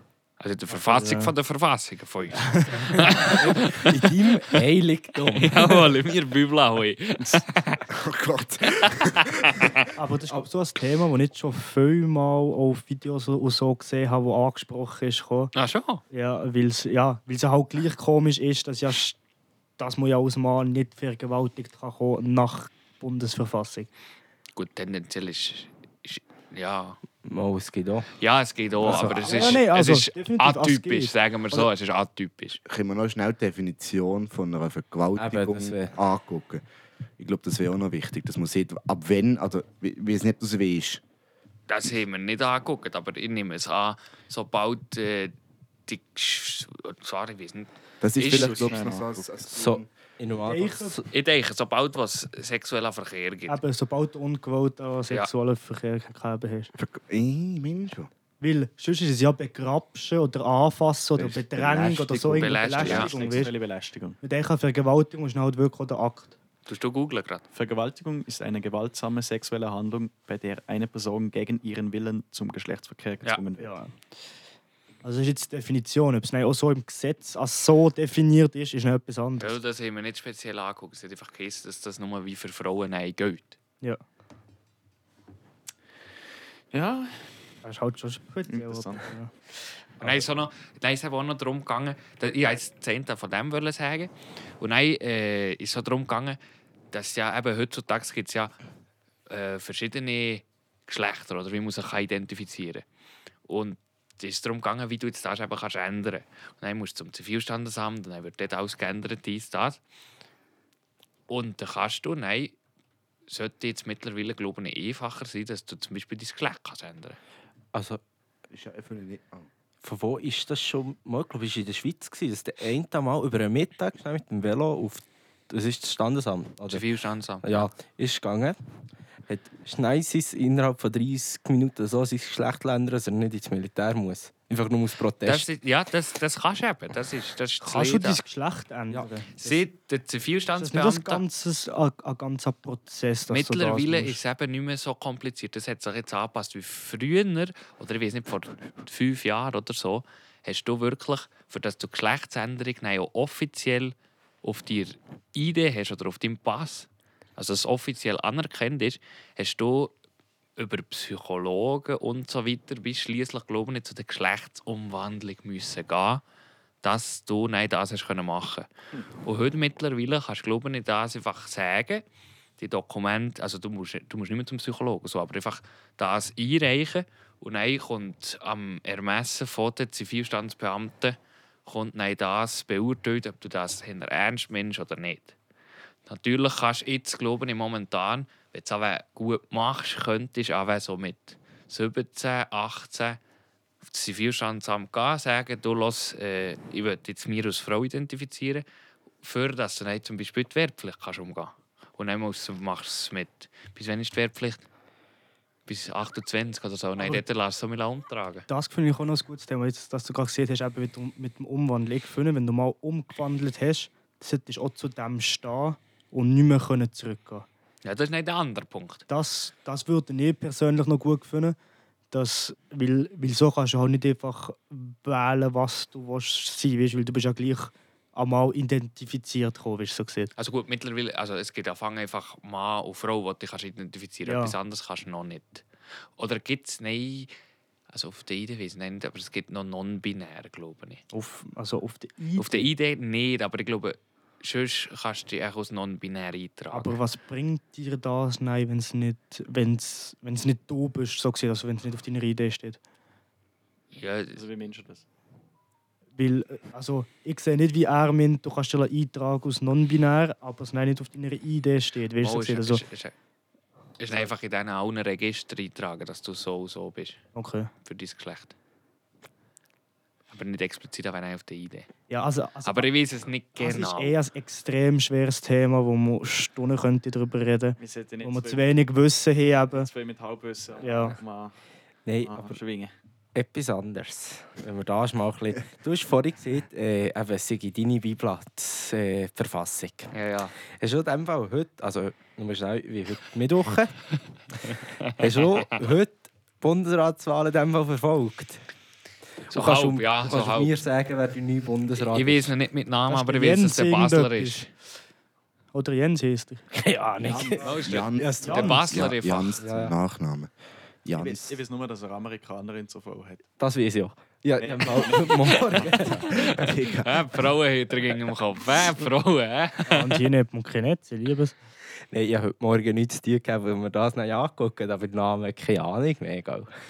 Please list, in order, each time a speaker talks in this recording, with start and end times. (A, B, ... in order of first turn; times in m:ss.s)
0:00.4-0:04.0 A
0:00.7-0:01.3 B
0:02.5-0:03.3 B
0:03.2-0:05.9 C
0:05.3-0:07.8 A
0:07.9-0:09.7 D
0:08.7-0:09.8 A
0:09.9-0:15.5 B
0:15.5-0:16.0 A
0:16.1-0:19.2 B
0:19.8-0:23.9 B
0:24.6-0:27.0 A
0:27.2-0:28.1 C
0:28.2-0:32.6 A
0:28.8-0:29.5 D
0:28.8-0:29.2 C
0:28.9-0:31.1 B
0:32.6-0:36.6 D
0:35.2-0:36.0 C
0:37.2-0:41.0 D
0:41.7-0:45.3 A
0:45.9-0:48.8 A
0:48.0-0:49.9 D
0:48.2-0:49.1 E
0:49.5-0:51.1 C
0:50.4-0:51.0 B
0:51.1-0:53.6 A
0:53.5-0:56.7 B
0:56.7-0:58.1 D
0:58.4-1:03.5 B
1:01.2-1:03.1 D
1:02.3-1:03.1 A
1:02.8-1:04.2 E
1:04.2-1:06.3 B
1:06.6-1:07.4 A
1:07.5-1:13.7 E
1:13.6-1:13.9 B
1:15.0-1:19.6 B
1:19.4-1:23.6 A
1:26.7-1:27.3 E
1:27.6-1:29.3 B
1:28.5-1:29.1 E
1:30.0-1:36.4 A
1:36.9-1:38.5 A
1:39.3-1:42.8 A
1:43.5-1:49.8 A
1:51.3-1:52.5 A
1:53.3-1:57.2 A
1:57.7-1:58.0 C
1:58.5-1:59.5 D
1:59.8-2:06.8 C
2:06.7-2:07.7 A
2:07.4-2:08.6 C
2:09.3-2:15.4 C
2:15.2-2:18.2 A
2:17.6-2:19.3 B
2:18.9-2:19.5 C
2:19.4-2:21.2 A
2:20.6-2:24.2 B
2:23.3-2:39.9 A
2:40.6-2:46.2 A
2:46.8-2:48.7 A
2:49.2-2:52.0 A
2:52.6-3:05.4 A
3:06.1-3:13.2 A
3:13.8-3:18.6 A
3:19.2-3:24.7 A
3:25.6-3:28.4 A
3:27.0-3:27.2 B
3:28.5-3:37.5 B
3:37.8-3:39.0 A
3:39.1-3:41.6 B
3:42.1-3:50.3 B
3:50.4-3:55.6 A
3:54.2-3:54.5 B
3:56.2-3:57.3 A
3:57.9-4:01.0 A
4:01.1-4:02.7 B
4:02.4-4:07.0 A
4:06.7-4:12.8 B
4:13.9-4:14.4 A
4:14.3-4:15.0 E
4:16.2-4:22.8 B
4:22.2-4:23.1 A
4:24.0-4:27.2 A
4:27.3-4:27.7 B
4:27.8-4:28.5 A
4:30.3-4:31.9 A
4:32.1-4:32.9 B
4:32.6-4:34.1 A
4:33.6-4:39.9 B
4:37.8-4:38.8 E
4:39.7-4:41.5 E
4:40.8-4:41.2 B
4:42.0-4:42.6 C
4:42.2-4:42.9 E
4:43.3-4:50.1 C
4:50.1-4:50.5 A
4:50.8-4:54.0 C
4:54.6-4:58.6 C
4:55.4-4:55.6 A
4:59.5-5:02.5 C
4:59.5-5:00.8 A
5:02.0-5:04.7 A
5:03.1-5:04.7 B
5:05.7-5:07.6 B
5:06.8-5:08.8 C
5:07.4-5:10.5 D
5:07.6-5:09.6 A
5:08.4-5:08.8 B
5:09.6-5:09.9 C
5:11.0-5:11.5 D
5:11.1-5:13.4 E
5:13.6-5:16.7 C
5:14.6-5:16.1 E
5:16.0-5:17.4 D
5:17.0-5:20.2 A
5:19.8-5:21.5 B
5:22.1-5:26.7 C